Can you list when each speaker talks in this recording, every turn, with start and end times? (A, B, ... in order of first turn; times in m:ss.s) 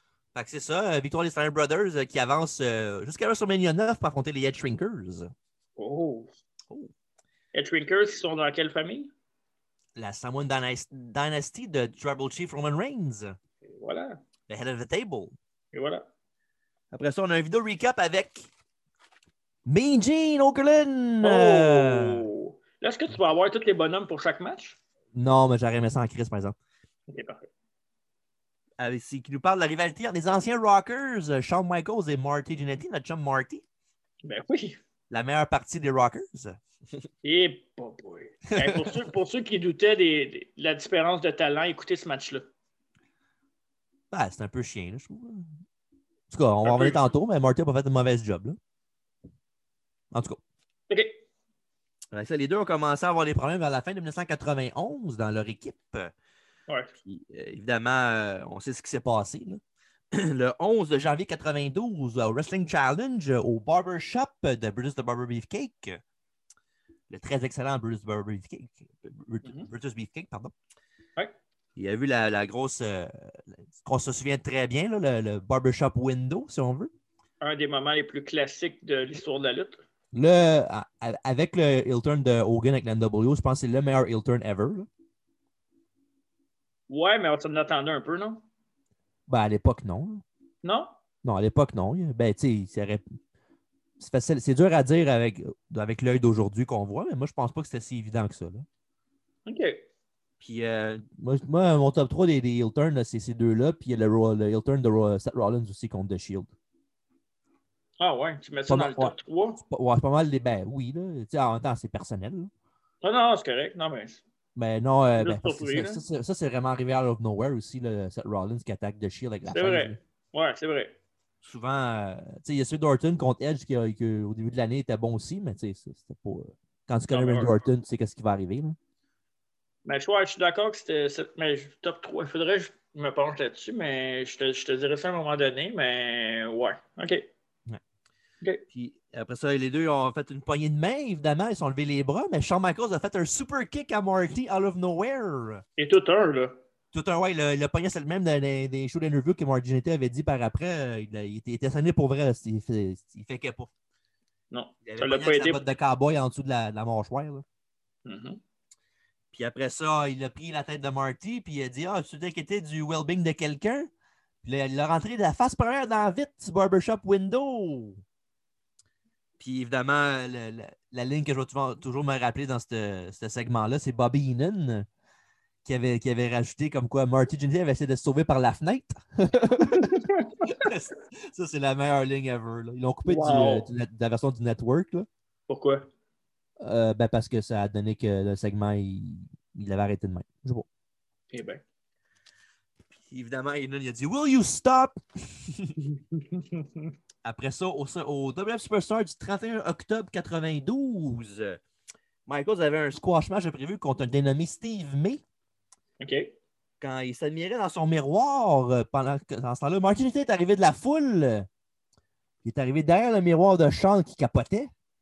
0:00.3-0:05.3 A
0:05.8-0:06.3 B
0:07.5-0:09.1 B
0:10.0-0:13.4 A
0:13.7-0:14.2 B
0:14.5-0:15.3 A
0:15.7-0:16.0 B
0:16.9-0:18.4 A
0:19.6-0:22.2 A
0:21.2-0:24.8 B
0:25.1-0:26.6 A
0:27.1-0:27.5 B
0:28.8-0:33.6 A
0:34.2-0:34.8 B
0:35.1-0:36.6 A
0:37.2-0:42.4 B
0:38.5-0:38.9 A
0:44.1-0:45.5 A
0:46.3-0:48.6 A
0:46.6-0:47.1 B
0:50.1-0:50.4 A
0:50.9-0:51.2 B
0:52.1-0:56.1 A
0:56.7-0:56.9 B
0:57.0-0:59.6 A
1:00.1-1:06.0 A
1:07.1-1:10.5 A
1:09.4-1:09.7 B
1:11.8-1:16.9 A
1:17.4-1:19.8 B
1:20.1-1:24.9 A
1:26.9-1:28.4 B
1:29.3-1:30.2 A
1:30.6-1:30.9 B
1:31.2-1:33.0 A
1:34.0-1:38.6 A
1:39.4-1:39.8 B
1:40.4-1:46.5 A
1:48.0-1:49.6 B
1:48.7-1:52.5 A
1:53.0-1:54.2 B
1:54.6-2:00.0 A
1:55.2-1:56.0 B
1:59.5-2:00.9 B
2:01.4-2:08.8 A
2:07.1-2:07.6 B
2:09.8-2:17.3 B
2:18.7-2:25.6 A
2:25.8-2:26.6 B
2:26.9-2:33.7 A
2:34.5-2:35.6 B
2:34.8-2:37.4 A
2:38.0-2:38.4 B
2:39.3-2:43.9 A
2:44.4-2:48.0 A
2:49.4-2:54.8 A
2:55.6-3:05.1 A
2:59.6-3:00.7 B
3:03.0-3:03.7 B
3:05.5-3:05.9 B
3:06.6-3:10.7 A
3:11.3-3:11.6 B
3:13.0-3:15.8 A
3:16.3-3:16.6 B
3:17.2-3:21.6 A
3:22.3-3:25.2 A
3:26.0-3:26.3 B
3:26.8-3:31.5 A
3:32.4-3:34.7 A